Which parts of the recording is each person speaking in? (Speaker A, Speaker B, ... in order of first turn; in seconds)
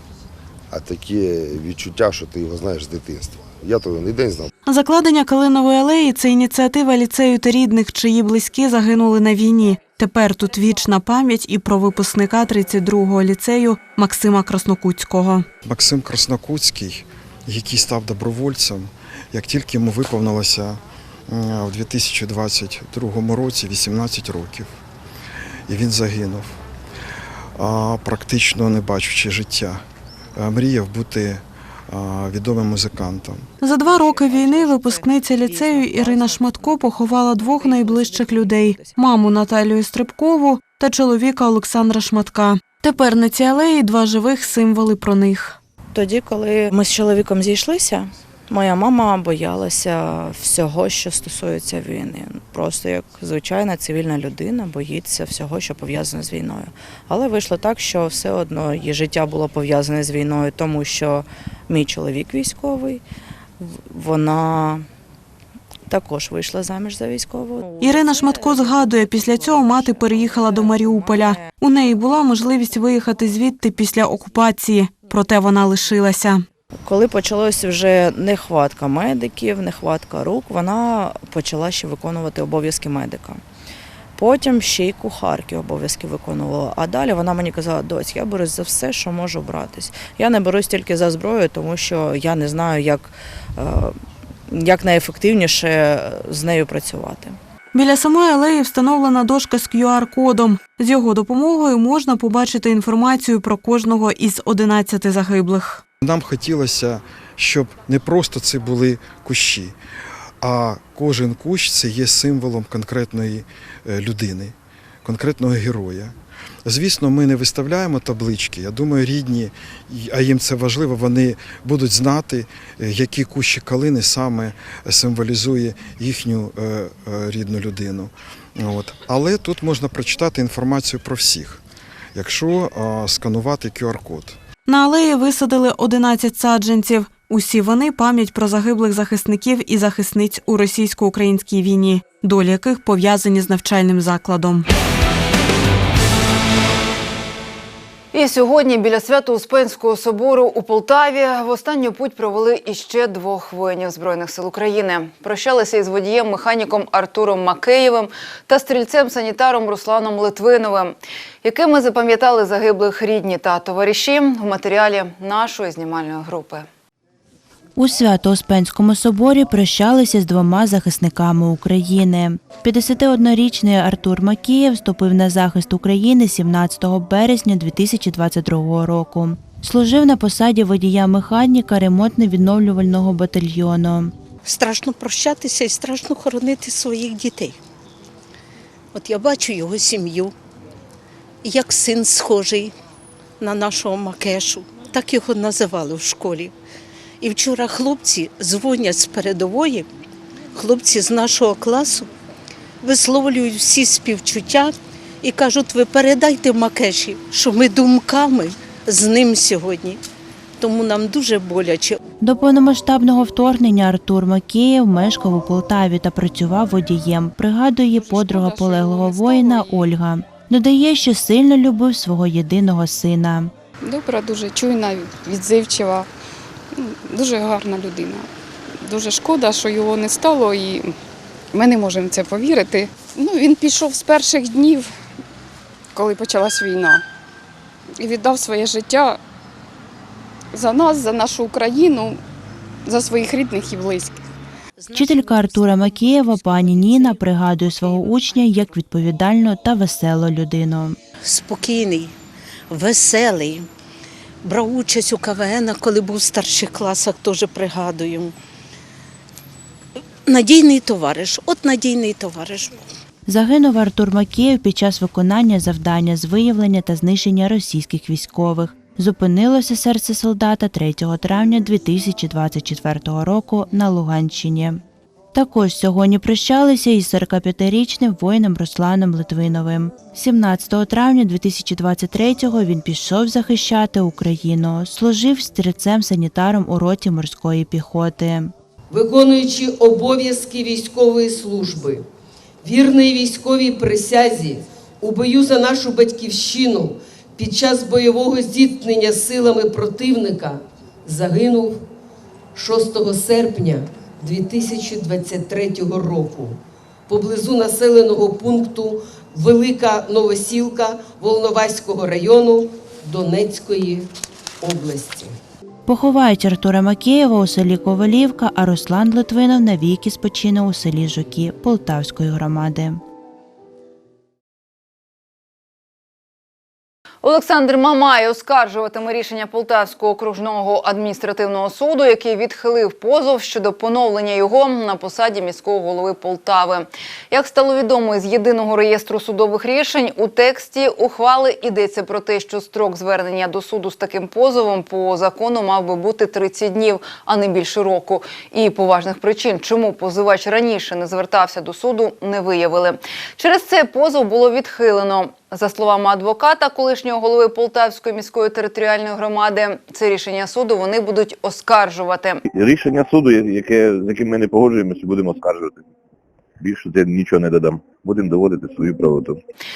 Speaker A: 0.7-4.5
Speaker B: 4.7-15.5, 33.6-45.6, 67.8-76.4, 97.7-105.8, 134.7-144.7
Speaker C: 15.6-24.7, 25.7-26.6, 27.6-29.8, 30.4-33.4, 106.0-109.8, 110.4-131.6, 132.1-134.4
Speaker D: 33.7-39.0, 45.9-63.0, 63.6-64.8, 65.9-71.5, 76.8-83.4, 84.2-94.0, 94.5-97.4, 244.8-248.8
Speaker E: 148.1-166.7, 327.2-362.4
Speaker F: 167.8-184.1, 212.2-223.5, 244.9-251.0, 263.3-274.8, 275.3-288.5, 315.9-323.0
Speaker G: 184.4-187.6, 188.9-190.3, 191.4-192.7, 193.4-196.5, 197.2-199.8, 200.5-202.1, 202.8-210.0, 210.6-212.0, 251.2-252.1, 252.7-253.7, 254.4-258.3, 260.3-262.8
Speaker H: 218.0-219.8, 223.8-226.1, 226.8-228.3, 228.8-230.9, 231.5-234.9, 235.9-237.0, 238.0-239.2, 240.5-242.2, 242.9-244.2
Speaker I: 288.9-292.0, 292.6-301.8, 302.5-306.6, 307.1-314.1, 314.6-315.4
Speaker J: 362.5-365.8, 366.6-369.4